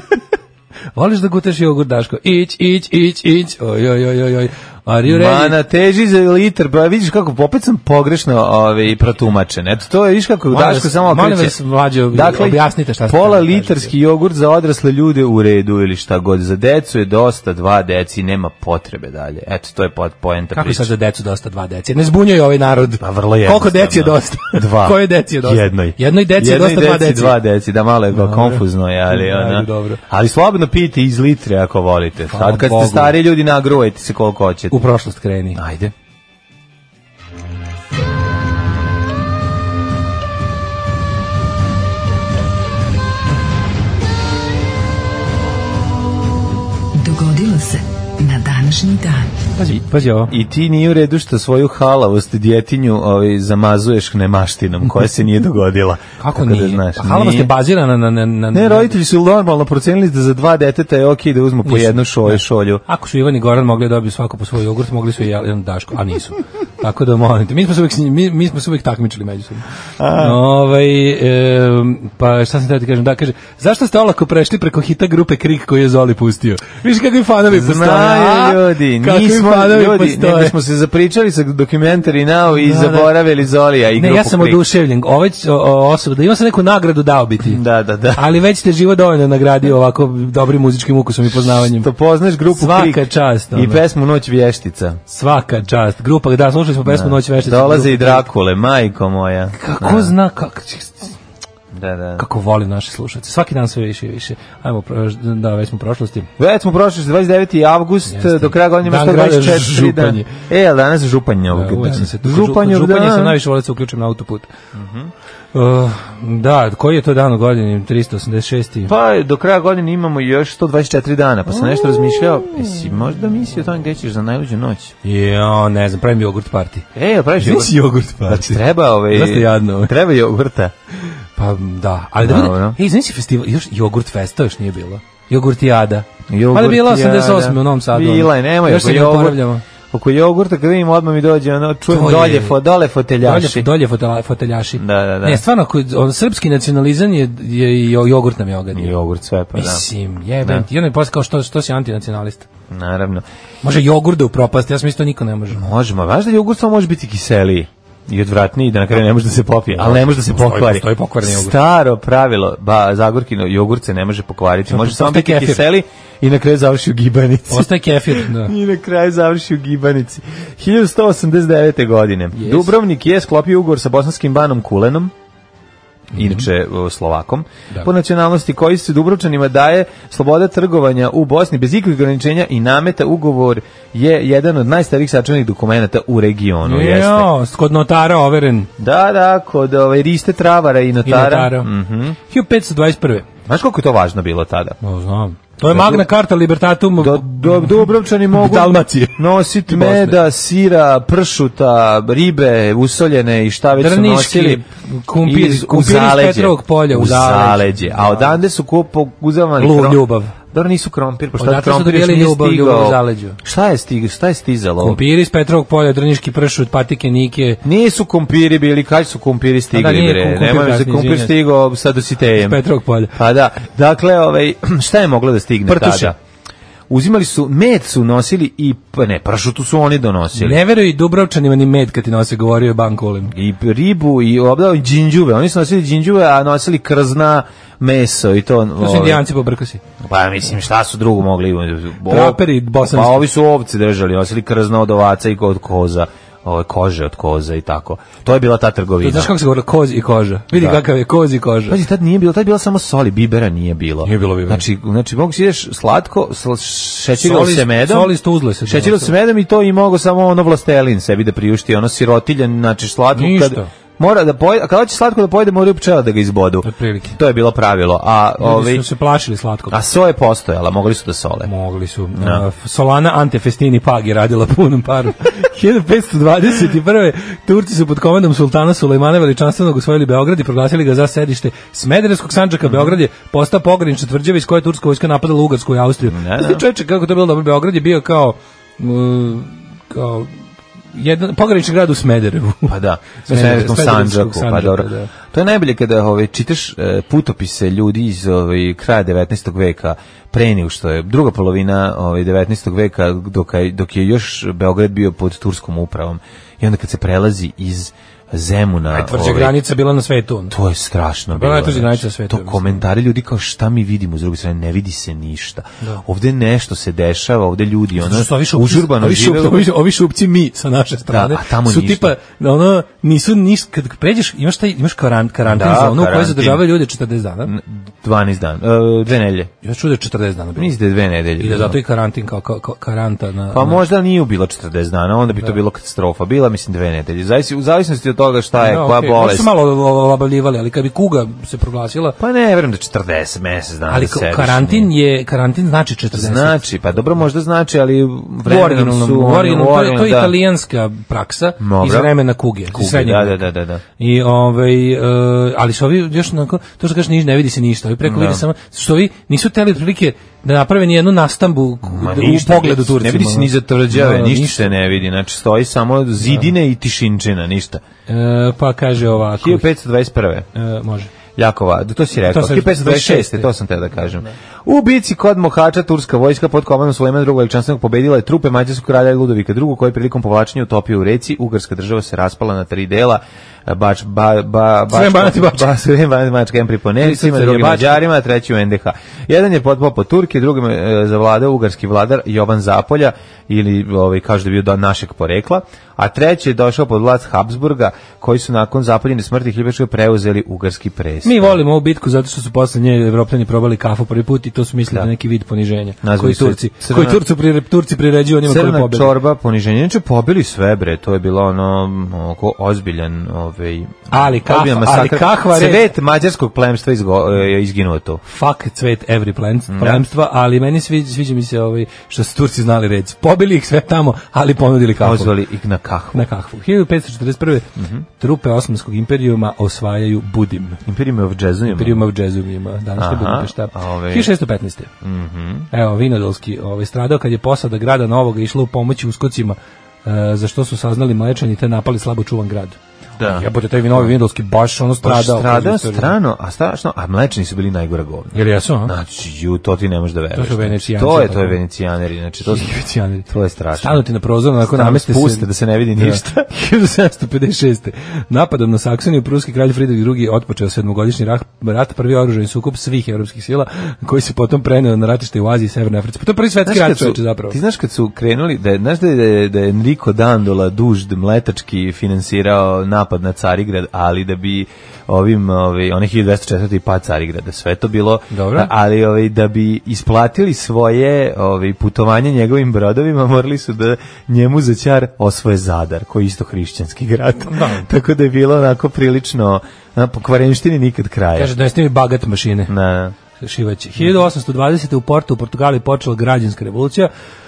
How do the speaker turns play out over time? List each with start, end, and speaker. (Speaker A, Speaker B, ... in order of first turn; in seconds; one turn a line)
Speaker A: 0.9-5.6
Speaker B: 5.0-11.6
Speaker A: 10.5-13.9
Speaker B: 12.1-20.9
Speaker A: 20.5-27.4
Speaker B: 23.0-34.8
Speaker A: 28.1-30.0
Speaker A: 32.3-33.1
Speaker A: 34.7-35.6
Speaker B: 35.5-35.9
Speaker C: 47.0-49.3
Speaker A: 49.5-50.3
Speaker B: 49.7-57.5
Speaker A: 56.2-59.0
Speaker B: 58.5-62.8
Speaker A: 61.6-69.6
Speaker B: 70.0-70.4
Speaker A: 70.2-80.5
Speaker B: 77.5-84.6
Speaker A: 82.6-83.1
Speaker A: 84.0-87.6
Speaker B: 87.4-88.3
Speaker A: 88.1-91.9
Speaker B: 91.4-95.0
Speaker A: 92.5-93.8
Speaker A: 95.1-98.2
Speaker B: 96.8-100.1
Speaker A: 99.5-101.1
Speaker B: 101.7-102.2
Speaker A: 102.2-106.3
Speaker B: 106.4-113.4
Speaker A: 108.1-110.3
Speaker A: 111.5-114.5
Speaker B: 114.7-115.1
Speaker A: 115.5-118.9
Speaker B: 118.9-124.9
Speaker A: 125.0-126.8
Speaker B: 126.9-130.7
Speaker A: 127.4-129.9
Speaker A: 131.3-139.6
Speaker B: 132.2-132.8
Speaker B: 136.3-139.4
Speaker B: 139.9-143.7
Speaker A: 141.9-142.6
Speaker A: 143.2-148.9
Speaker B: 144.8-145.4
Speaker B: 148.7-149.8
Speaker A: 149.5-152.5
Speaker B: 152.7-153.2
Speaker A: 153.6-155.6
Speaker B: 155.5-175.1
Speaker A: 159.7-161.6
Speaker A: 164.7-165.6
Speaker A: 167.5-168.5
Speaker A: 172.3-172.7
Speaker A: 176.1-176.5
Speaker B: 176.1-187.3
Speaker A: 186.6-188.7
Speaker B: 188.8-192.2
Speaker A: 191.1-191.7
Speaker A: 192.3-193.3
Speaker B: 193.4-194.8
Speaker A: 194.8-200.2
Speaker B: 195.6-196.1
Speaker B: 197.0-204.6
Speaker A: 203.8-208.4
Speaker B: 205.2-215.0
Speaker A: 209.6-210.3
Speaker A: 211.4-213.4
Speaker A: 214.8-217.6
Speaker B: 217.6-222.6
Speaker A: 219.7-221.3
Speaker A: 222.4-223.1
Speaker B: 223.1-226.2
Speaker A: 225.7-226.1
Speaker B: 226.9-230.6
Speaker A: 230.3-233.3
Speaker B: 233.3-239.2
Speaker A: 238.8-239.8
Speaker B: 240.0-249.3
Speaker A: 242.1-243.3
Speaker A: 249.0-251.8
Speaker B: 250.5-250.8
Speaker B: 251.7-268.8
Speaker A: 254.0-254.6
Speaker A: 257.2-259.1
Speaker A: 263.1-263.7
Speaker A: 266.6-267.2
Speaker A: 268.4-269.8
Speaker B: 269.7-271.5
Speaker A: 271.4-290.3
Speaker B: 272.1-272.4
Speaker B: 282.6-283.0
Speaker B: 286.1-286.6
Speaker A: 290.9-295.1
Speaker B: 292.7-309.6
Speaker A: 308.9-310.5
Speaker B: 310.5-319.7
Speaker A: 311.3-312.8
Speaker A: 318.0-327.5
Speaker B: 321.1-322.1
Speaker B: 325.4-326.7
Speaker B: 327.4-329.5
Speaker A: 329.6-330.7
Speaker B: 330.6-331.8
Speaker A: 331.4-333.8
Speaker B: 333.5-339.5
Speaker A: 338.6-342.2
Speaker B: 342.2-344.9
Speaker A: 343.9-346.6
Speaker B: 346.1-350.4
Speaker A: 348.4-353.4
Speaker B: 351.6-352.1
Speaker B: 352.7-353.8
Speaker A: 354.0-364.8
Speaker B: 358.0-358.4
Speaker B: 361.9-367.8
Speaker A: 366.2-366.5
Speaker A: 368.1-369.7
Speaker B: 369.4-370.5
Speaker A: 370.5-371.1
Speaker B: 371.4-401.6
Speaker A: 372.3-373.5
Speaker A: 384.9-385.7
Speaker A: 387.0-388.0
Speaker A: 401.2-409.1
Speaker B: 406.0-407.2
Speaker B: 408.4-418.2
Speaker A: 414.1-415.9
Speaker A: 418.2-425.3
Speaker B: 419.7-420.0
Speaker B: 425.0-426.2
Speaker A: 426.1-430.8
Speaker B: 427.8-428.0
Speaker B: 430.9-432.1
Speaker A: 431.7-434.9
Speaker B: 433.0-434.3
Speaker B: 435.0-435.7
Speaker A: 435.7-446.1
Speaker B: 443.2-444.1
Speaker B: 445.0-452.7
Speaker A: 448.3-448.9
Speaker A: 450.3-451.6
Speaker A: 452.4-467.6
Speaker B: 453.3-454.0
Speaker B: 454.6-456.5
Speaker B: 466.6-491.5
Speaker A: 478.3-478.7
Speaker A: 487.4-487.9
Speaker A: 491.4-492.7
Speaker B: 492.7-493.1
Speaker A: 493.4-497.1